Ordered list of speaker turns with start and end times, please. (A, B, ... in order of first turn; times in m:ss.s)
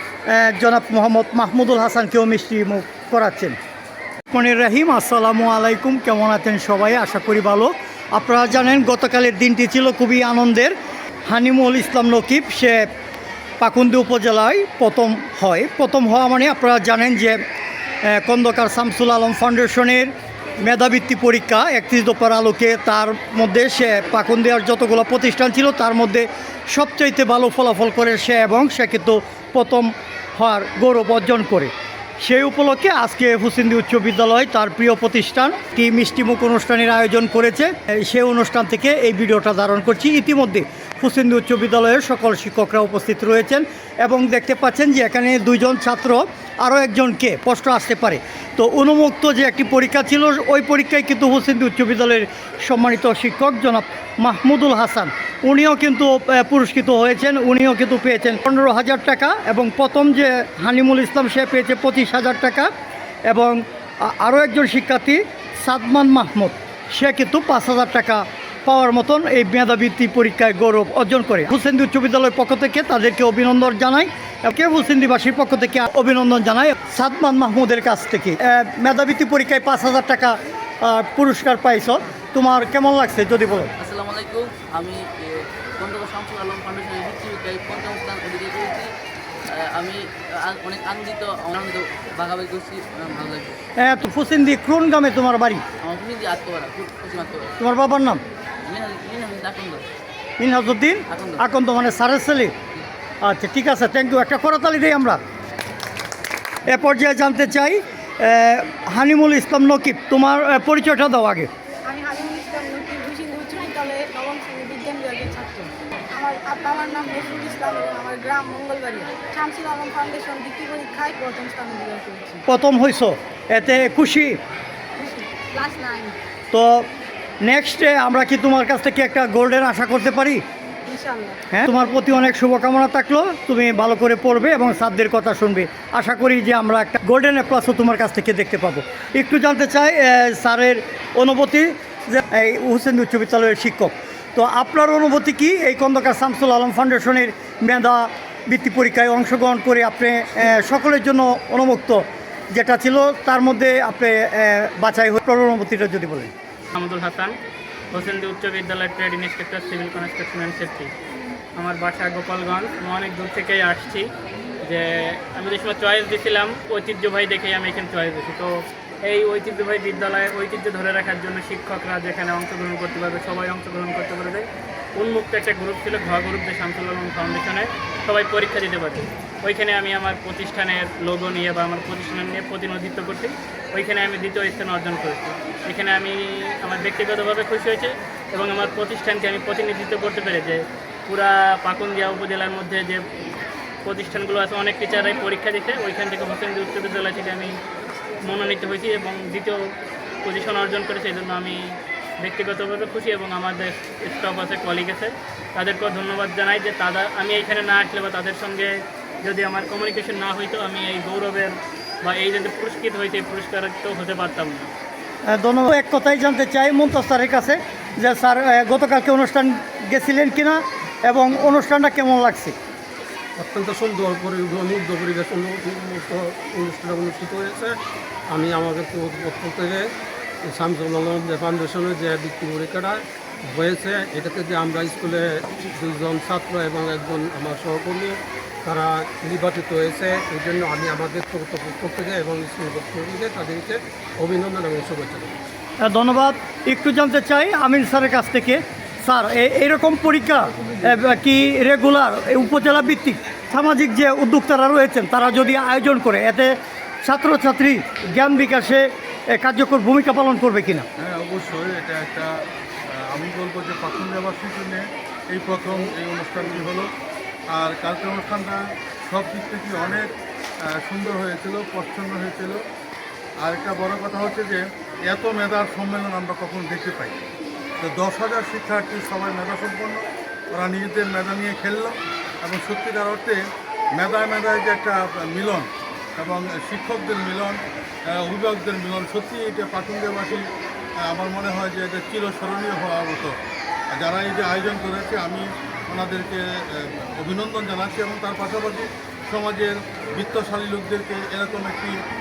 0:00.3-0:03.6 A
0:04.3-0:10.8 A
0:11.3-0:12.9 A
0:13.6-0:17.4 A
0:18.1-0:20.1 A
0:20.6-1:02.7 A
1:03.3-1:23.7 A
1:23.8-1:28.9 B
1:29.5-1:33.6 B
1:33.8-1:35.6 A
1:35.8-1:37.5 B
1:37.6-1:38.2 A
1:38.6-1:39.8 B
1:40.4-1:42.5 A
1:41.1-1:41.4 B
1:43.2-1:45.2 A
1:46.7-1:51.5 A
1:51.8-2:02.4 C
2:02.5-2:04.4 A
2:05.0-2:06.2 C
2:06.5-2:06.9 A
2:07.4-2:10.4 A
2:10.9-2:11.4 C
2:11.5-2:36.3 A
2:36.8-2:37.4 D
2:37.9-2:40.9 D
2:41.6-2:44.1 D
2:44.6-3:13.0 D
3:13.8-3:17.6 D
3:18.2-3:19.7 D
3:20.2-3:34.7 D
3:35.3-3:42.6 A
3:43.4-3:47.7 E
3:48.3-3:49.8 E
3:50.5-3:53.0 E
3:53.5-3:58.1 E
3:58.6-4:05.3 E
4:05.8-4:20.9 A
4:21.0-4:22.3 F
4:22.9-4:26.9 F
4:27.5-4:30.1 F
4:30.7-4:32.6 F
4:33.4-4:37.2 F
4:37.8-4:43.4 F
4:44.0-4:47.6 F
4:48.1-4:50.4 F
4:51.1-4:53.3 F
4:54.0-5:02.0 F